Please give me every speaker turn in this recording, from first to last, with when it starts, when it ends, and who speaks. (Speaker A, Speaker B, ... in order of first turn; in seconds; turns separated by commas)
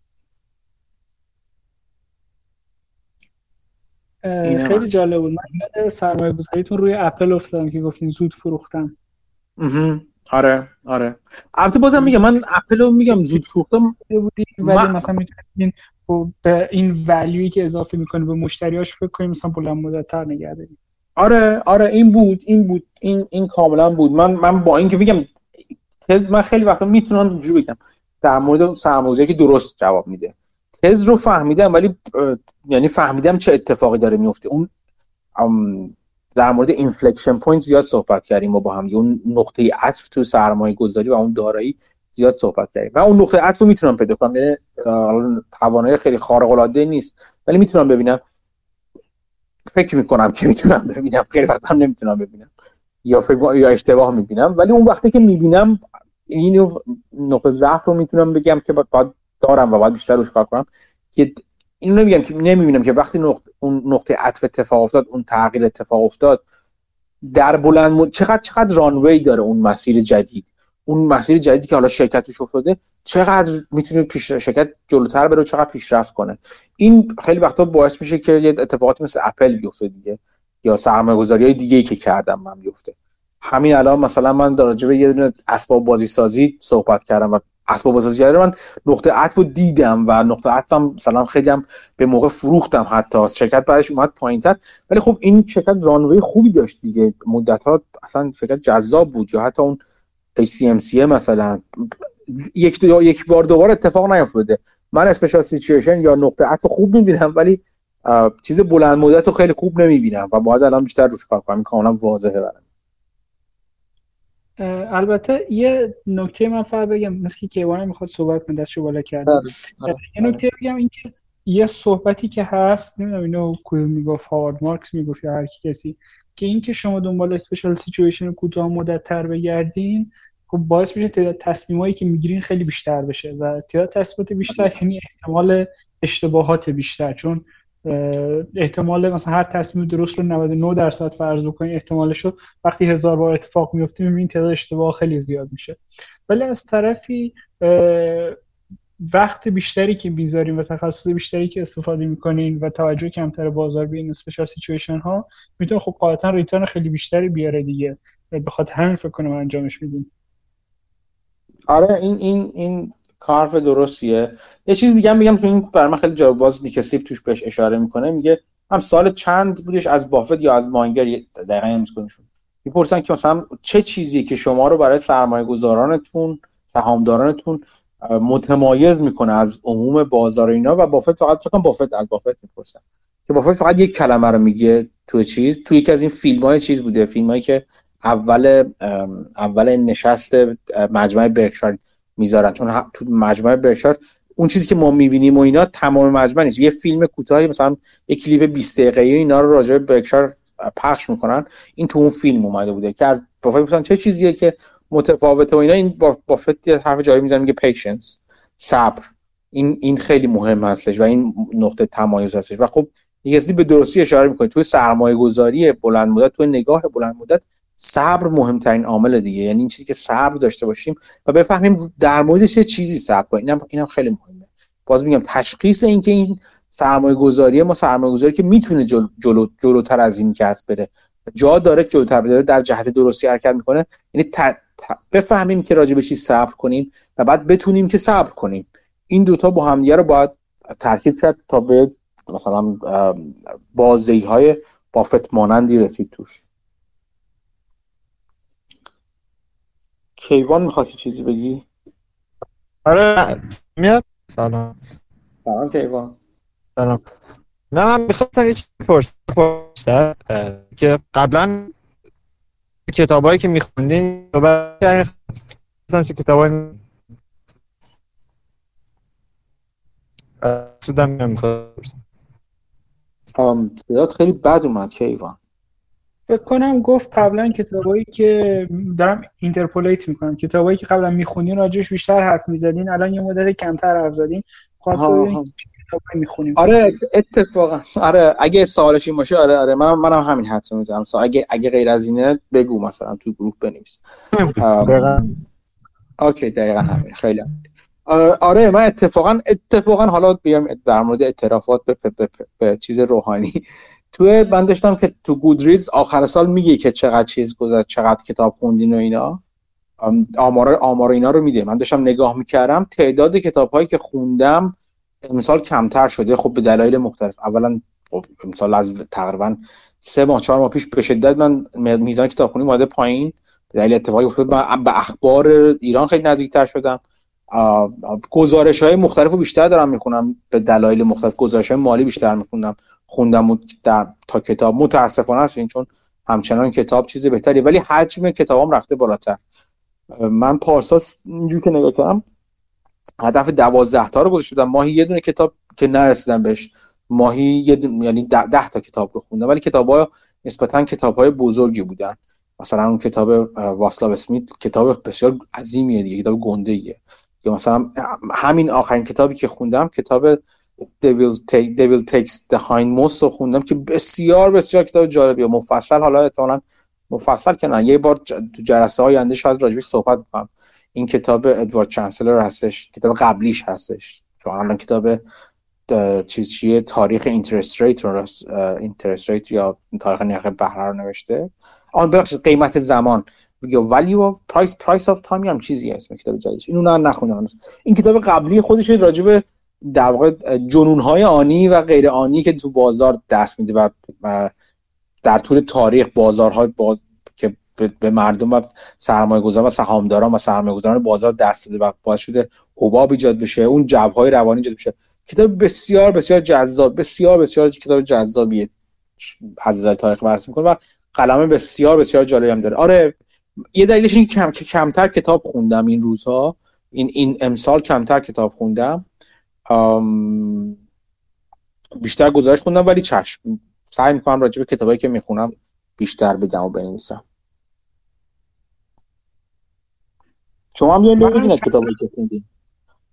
Speaker A: 4.2-8.9, Speaker B: 4.4-4.8, Speaker B: 9.6-13.9, Speaker A: 13.1-13.4, Speaker A: 14.0-20.7, Speaker B: 14.6-15.0, Speaker B: 21.2-25.3, Speaker B: 26.0-34.7, Speaker B: 35.4-48.2, Speaker B: 49.7-52.5, Speaker B: 53.0-66.4, Speaker B: 67.3-99.8, Speaker B: 100.4-112.6, Speaker A: 114.6-148.4, Speaker B: 119.3-120.4, Speaker A: 149.1-160.1, Speaker B: 161.7-246.4, Speaker B: 250.2-251.6, Speaker C: 252.8-254.7, Speaker B: 255.4-256.1, Speaker C: 256.8-257.0, Speaker C: 257.7-261.7, Speaker C: 262.9-265.1, Speaker C: 265.9-266.8, Speaker C: 270.4-272.0, Speaker B: 273.3-275.4, Speaker A: 276.3-287.0, Speaker B: 284.9-285.5, Speaker B: 286.6-294.0, Speaker C: 294.3-295.2, Speaker B: 294.6-295.2, Speaker B: 296.2-297.5, Speaker B: 298.1-303.6, Speaker B: 304.1-309.4, Speaker B: 310.0-327.0, Speaker B: 327.5-339.4, Speaker B: 340.1-342.2, Speaker B: 343.2-375.2, Speaker B: 375.9-394.5, Speaker B: 395.2-413.1, Speaker B: 413.7-419.0, Speaker B: 419.7-420.8, Speaker B: 422.0-427.2, Speaker B: 430.7-432.4, Speaker A: 431.2-431.9